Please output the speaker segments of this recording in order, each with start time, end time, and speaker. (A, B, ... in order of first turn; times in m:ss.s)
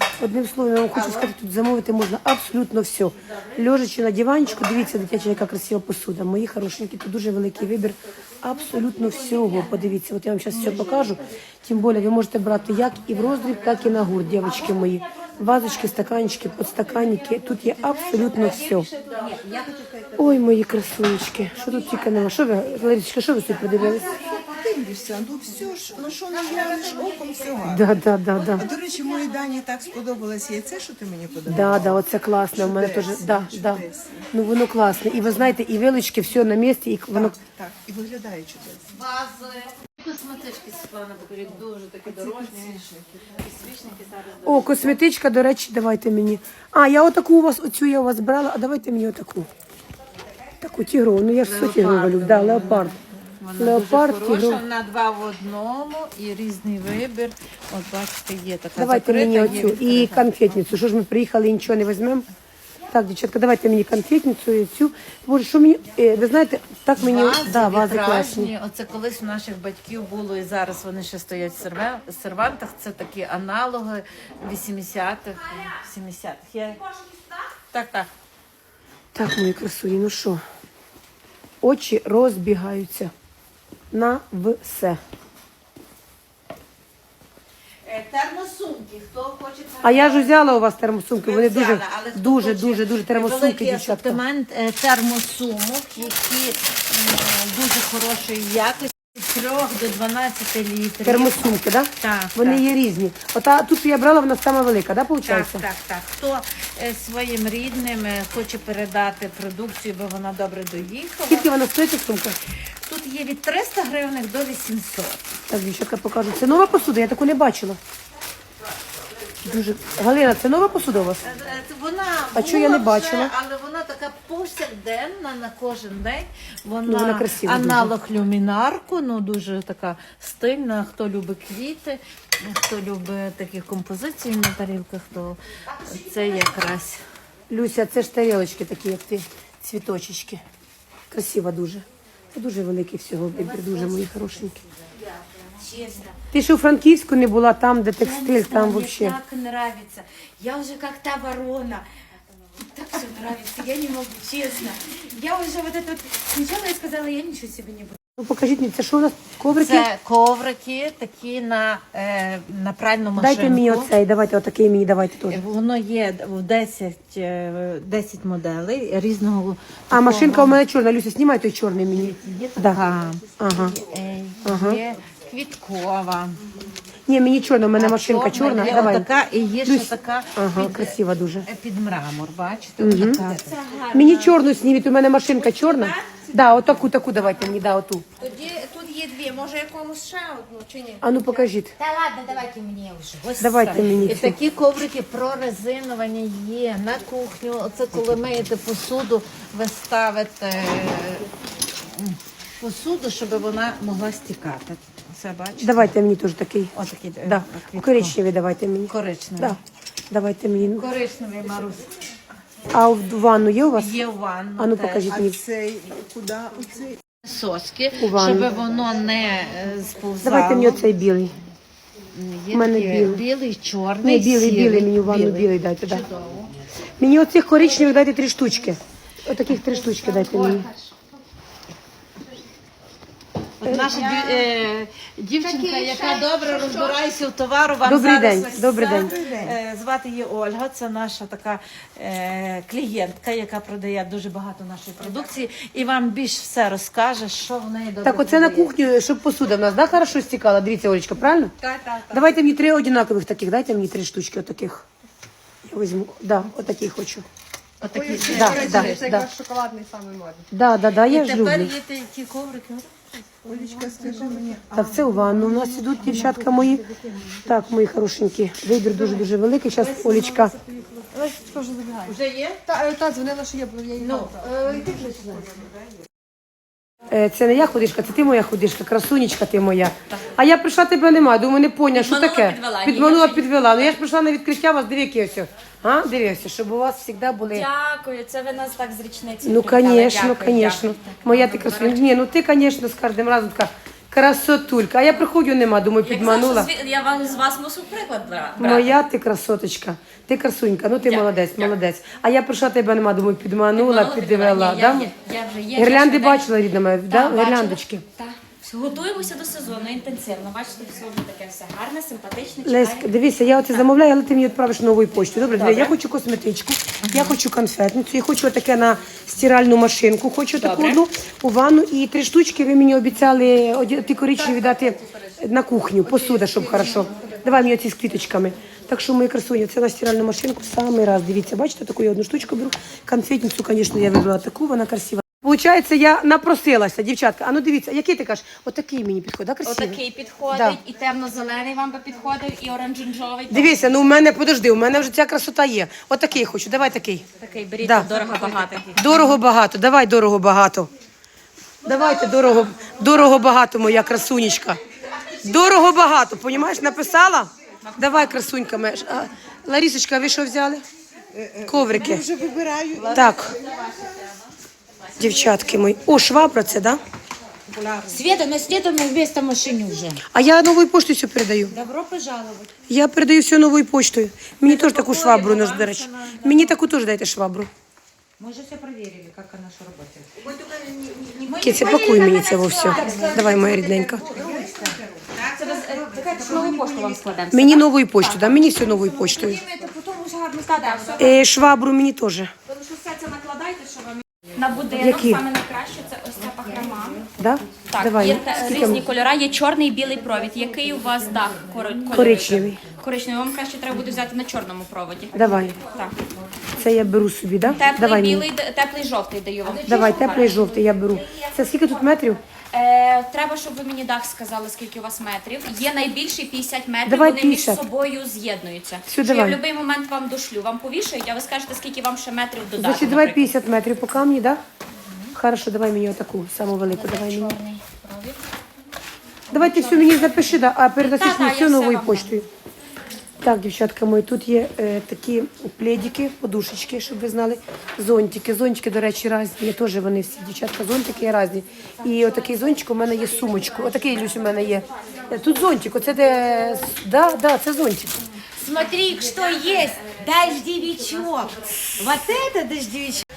0:00.2-0:18.9 A
0:00.9-0:01.3 B
0:03.3-0:03.6 B
0:08.8-0:09.8 B
0:10.6-0:11.0 B
0:14.4-0:15.7 C
0:17.9-0:20.2 C
0:18.3-0:18.8 B
0:20.2-0:24.0 A
0:23.7-0:34.3 D
0:26.5-0:27.0 C
0:27.6-0:28.7 A
0:31.4-0:37.3 A
0:37.1-0:38.9 D
0:38.9-0:45.0 B
0:42.0-0:42.9 D
0:44.4-0:49.5 A
0:50.6-0:52.9 A
0:51.4-1:00.3 B
0:53.6-0:54.6 A
0:58.8-1:02.2 A
1:02.9-1:08.5 A
1:07.0-1:16.8 B
1:17.7-1:18.1 B
1:19.1-1:20.4 A
1:21.6-1:23.1 A
1:23.9-1:25.0 A
1:27.8-1:30.3 B
1:29.8-1:34.2 A
1:31.2-1:41.4 B
1:41.0-1:45.6 A
1:42.0-1:42.6 B
1:45.2-1:51.5 B
1:51.2-1:52.4 A
1:52.8-1:55.2 B
1:55.5-1:57.8 A
1:59.4-2:01.2 A
2:01.2-2:17.0 B
2:02.3-2:03.3 A
2:06.8-2:07.9 A
2:15.7-2:16.5 C
2:17.5-2:20.4 A
2:21.1-2:24.6 A
2:23.3-2:26.2 C
2:26.3-2:29.2 A
2:28.0-2:31.8 C
2:32.6-2:38.0 C
2:38.2-2:39.9 A
2:39.5-2:43.9 B
2:43.2-2:45.4 A
2:45.3-2:50.6 B
2:49.9-2:52.8 A
2:52.0-2:56.4 B
2:53.4-2:53.8 A
2:54.4-2:54.8 A
2:57.1-2:59.1 A
2:57.8-3:03.6 B
2:59.6-3:01.5 A
3:02.8-3:03.4 A
3:03.5-3:04.2 C
3:03.9-3:08.0 A
3:05.6-3:06.3 C
3:08.2-3:11.2 C
3:11.0-3:11.7 A
3:11.8-3:13.3 C
3:13.2-3:21.3 B
3:13.4-3:14.4 A
3:21.9-3:25.8 B
3:25.6-3:26.7 A
3:26.7-3:28.2 B
3:27.2-3:29.6 A
3:28.9-3:29.6 B
3:30.1-3:30.8 A
3:30.7-3:31.9 B
3:32.7-3:34.0 A
3:33.7-3:35.2 B
3:34.6-3:35.4 A
3:35.0-3:37.0 D
3:37.2-3:40.9 B
3:38.0-3:38.5 A
3:40.2-3:41.3 A
3:42.1-3:46.5 B
3:42.5-3:43.2 A
3:44.0-3:46.0 A
3:47.0-3:50.7 A
3:53.6-4:08.7 B
3:53.6-3:54.1 A
3:55.7-3:57.0 E
3:57.8-3:59.1 A
3:58.9-3:59.6 D
4:08.0-4:11.5 A
4:12.1-4:14.8 A
4:15.6-4:17.2 A
4:17.8-4:19.2 B
4:17.9-4:19.3 D
4:17.9-4:20.4 F
4:18.3-4:19.3 A
4:20.5-4:21.7 A
4:21.0-4:22.9 B
4:23.4-4:24.4 F
4:23.4-4:26.5 D
4:24.7-4:26.8 A
4:25.8-4:27.5 F
4:27.4-4:30.5 A
4:28.9-4:29.2 F
4:29.8-4:34.7 F
4:32.0-4:32.6 B
4:34.0-4:35.5 B
4:37.1-4:47.6 A
4:41.9-4:43.9 E
4:47.5-4:52.0 E
4:49.4-4:56.7 A
4:56.0-4:59.0 E
4:58.6-5:05.1 A
5:01.0-5:01.7 E
5:03.7-5:06.5 E
5:05.8-5:08.0 A
5:07.1-5:13.1 E
5:12.6-5:40.8 A
5:15.6-5:15.9 E
5:20.5-5:21.0 E
5:24.4-5:25.1 F
5:26.0-5:27.6 F
5:39.6-5:43.9 E
5:43.5-5:47.2 A
5:47.4-5:49.4 E
5:47.8-5:48.4 A
5:48.9-5:50.9 A
5:51.8-5:54.8 A
5:55.4-6:00.8 A
5:57.8-5:58.4 E
6:01.3-6:04.2 D
6:01.6-6:02.3 A
6:03.0-6:03.7 C
6:03.1-6:03.6 A
6:05.2-6:07.0 A
6:07.7-6:08.2 D
6:08.1-6:10.2 C
6:10.2-6:11.7 A
6:11.7-6:12.7 C
6:12.9-6:17.7 A
6:14.6-6:16.8 B
6:18.4-6:20.5 C
6:20.4-6:21.7 D
6:21.3-6:27.1 C
6:21.5-6:24.1 E
6:21.6-6:24.2 A
6:22.9-6:27.3 D
6:25.5-6:31.4 E
6:27.5-6:29.6 A
6:30.8-6:31.3 C
6:31.2-6:32.5 A
6:32.7-6:37.2 E
6:34.9-6:35.4 A
6:36.5-6:37.3 C
6:37.4-6:39.0 A
6:37.9-6:46.2 E
6:38.3-6:39.0 C
6:40.3-6:42.3 C
6:42.1-6:42.8 A
6:45.3-6:45.8 A
6:46.8-6:48.5 A
6:47.7-6:52.1 E
6:49.6-6:50.9 C
6:49.8-6:52.4 A
6:52.7-7:03.6 E
6:57.0-6:57.8 A
6:59.0-6:59.6 A
7:02.8-7:04.6 A
7:05.3-7:07.6 A
7:07.0-7:08.3 E
7:07.1-7:08.3 C
7:09.5-7:12.4 A
7:09.5-7:12.3 E
7:13.4-7:28.2 A
7:24.8-7:25.6 E
7:28.6-7:33.2 C
7:28.8-7:31.5 E